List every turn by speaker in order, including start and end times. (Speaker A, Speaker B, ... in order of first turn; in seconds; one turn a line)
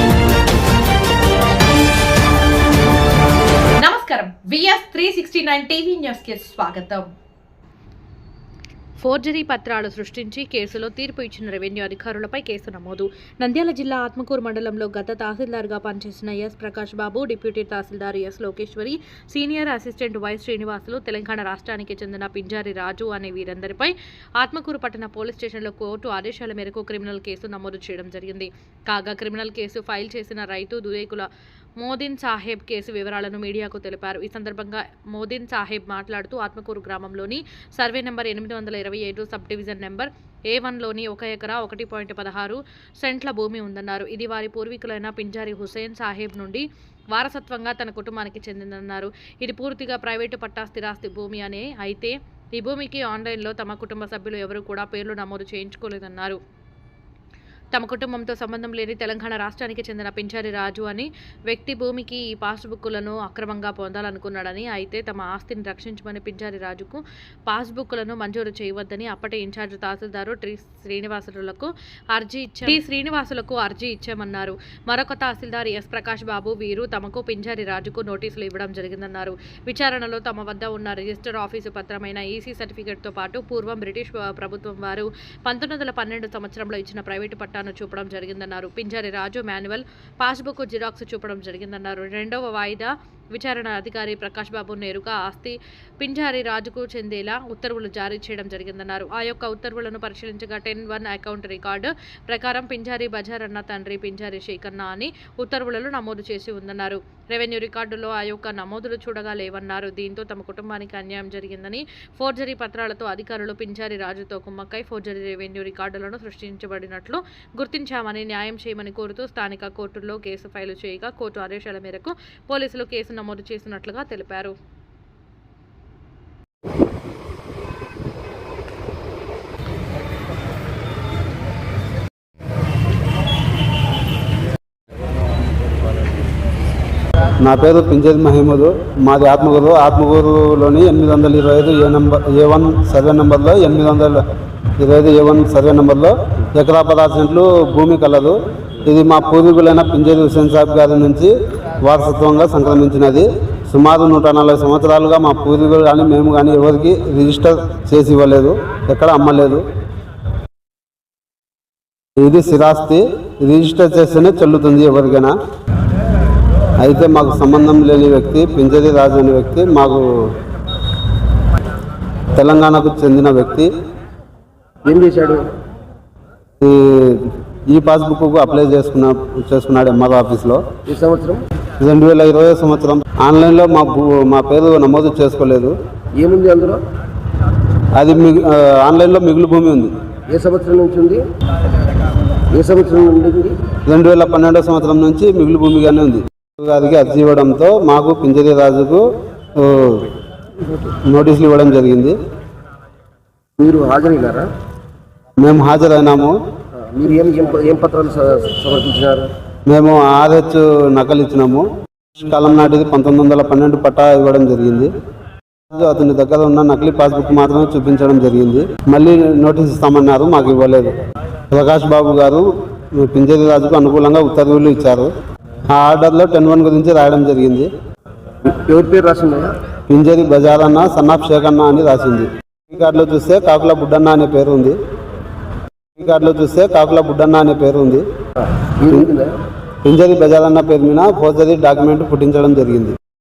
Speaker A: 3.8-7.1
Speaker A: 9.0-31.3
Speaker A: 31.8-56.4
Speaker A: 57.7-124.5
Speaker B: 137.4-144.2
Speaker B: 144.8-159.6
Speaker B: 162.2-165.3
Speaker B: 166.8-170.3
Speaker B: 172.4-173.7
Speaker C: 174.8-175.5
Speaker B: 176.6-180.6
Speaker C: 180.9-181.4
Speaker B: 181.8-185.8
Speaker C: 186.2-186.8
Speaker B: 188.0-189.9
Speaker C: 190.3-191.2
Speaker C: 192.5-193.6
Speaker B: 193.9-199.0
Speaker B: 199.6-200.1
Speaker B: 201.0-202.2
Speaker C: 203.6-204.5
Speaker B: 205.4-206.4
Speaker C: 206.8-209.3
Speaker B: 209.7-214.9
Speaker B: 215.7-220.9
Speaker B: 221.5-225.1
Speaker B: 225.7-227.7
Speaker C: 228.4-229.6
Speaker B: 229.9-234.8
Speaker B: 236.0-238.1
Speaker C: 238.6-239.4
Speaker B: 239.8-242.9